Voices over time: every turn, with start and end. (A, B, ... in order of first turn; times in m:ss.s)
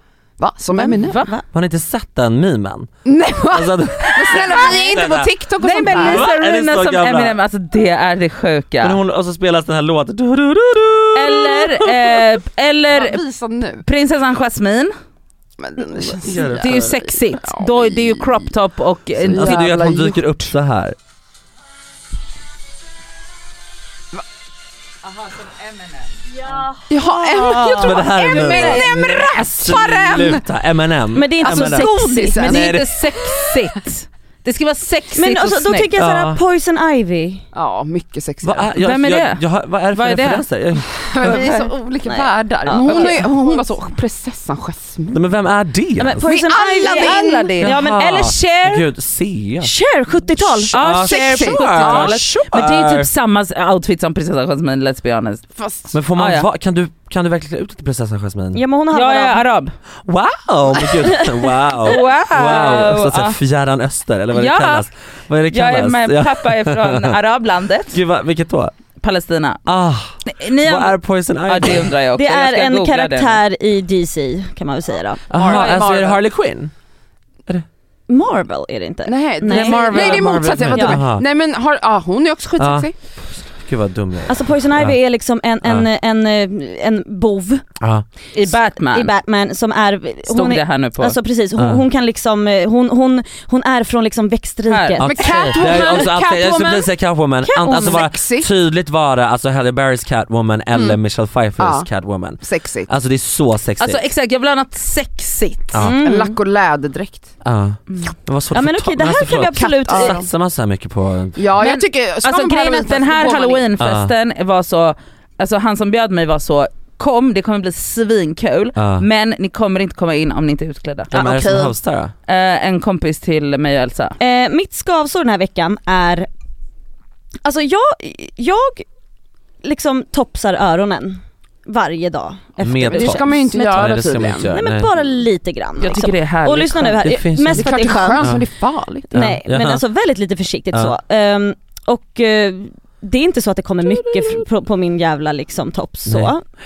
0:00.4-0:01.2 A
0:00.8-0:01.4 B
0:01.0-0:01.3 C
0:01.5-0:02.9 D
0:03.0-0:06.3 A
0:03.5-0:05.3 D
0:04.3-0:05.0 C
0:05.6-0:09.0 C
0:05.9-0:07.4 D
0:08.8-0:12.1 D
0:11.2-0:13.2 C
0:12.9-0:13.9 A
0:13.8-0:14.9 C
0:15.6-0:18.4 A
0:16.2-0:16.9 D
0:16.5-0:19.7 C
0:19.2-0:20.5 A
0:19.4-0:21.0 D
0:25.0-0:26.5 C
0:26.9-0:30.4 A
0:26.9-0:28.1 B
0:27.7-0:31.9 D
0:28.3-0:28.9 C
0:31.1-0:32.5 B
0:31.4-0:32.9 A
0:32.0-0:35.9 C
0:32.4-0:32.9 D
0:35.2-0:37.4 B
0:36.0-0:36.4 D
0:37.5-0:38.7 A
0:38.4-0:41.1 D
0:38.8-0:40.4 C
0:41.0-0:45.2 A
0:41.2-0:41.7 C
0:42.1-0:43.5 B
0:42.8-0:43.3 C
0:45.1-0:46.2 D
0:46.0-0:48.1 B
0:46.2-0:47.6 A
0:46.8-0:48.9 C
0:47.6-0:49.7 D
0:49.6-0:50.7 B
0:50.3-0:53.1 D
0:50.7-0:55.4 C
0:51.0-0:52.2 A
0:55.6-0:55.9 A
0:55.9-0:58.6 D
0:56.2-0:56.5 C
0:58.5-0:59.4 B
0:58.9-0:59.7 C
1:00.0-1:07.2 D
1:01.0-1:01.3 B
1:01.8-1:03.4 C
1:04.3-1:04.9 C
1:05.5-1:08.0 C
1:07.9-1:08.7 D
1:09.0-1:09.6 C
1:09.7-1:11.9 D
1:10.3-1:13.4 C
1:12.2-1:15.2 B
1:15.3-1:16.7 D
1:15.3-1:16.2 A
1:15.4-1:15.9 C
1:18.1-1:21.0 B
1:19.1-1:22.9 A
1:19.5-1:21.2 D
1:22.6-1:25.0 D
1:24.3-1:27.6 B
1:28.3-1:29.1 C
1:28.5-1:36.0 B
1:30.3-1:31.2 C
1:31.6-1:31.8 D
1:34.7-1:35.0 C
1:35.0-1:44.0 D
1:35.1-1:36.9 A
1:37.5-1:38.0 B
1:37.6-1:38.5 A
1:41.6-1:41.9 A
1:42.4-1:42.9 A
1:43.8-1:45.8 C
1:45.8-1:46.4 B
1:45.8-1:47.3 A
1:47.4-1:51.4 D
1:48.5-1:50.2 B
1:49.5-1:50.2 A
1:51.4-1:53.7 A
1:51.6-2:01.5 C
1:53.8-1:54.1 D
1:58.8-1:59.0 D
2:01.1-2:02.1 D
2:01.2-2:01.7 A
2:02.3-2:04.2 C
2:04.2-2:06.3 B
2:07.4-2:08.8 B
2:09.6-2:13.9 B
2:12.6-2:14.9 D
2:12.9-2:14.5 A
2:14.5-2:18.3 B
2:15.8-2:17.1 C
2:17.0-2:18.4 D
2:17.5-2:19.1 A
2:19.1-2:26.4 B
2:19.1-2:19.8 D
2:26.1-2:26.3 D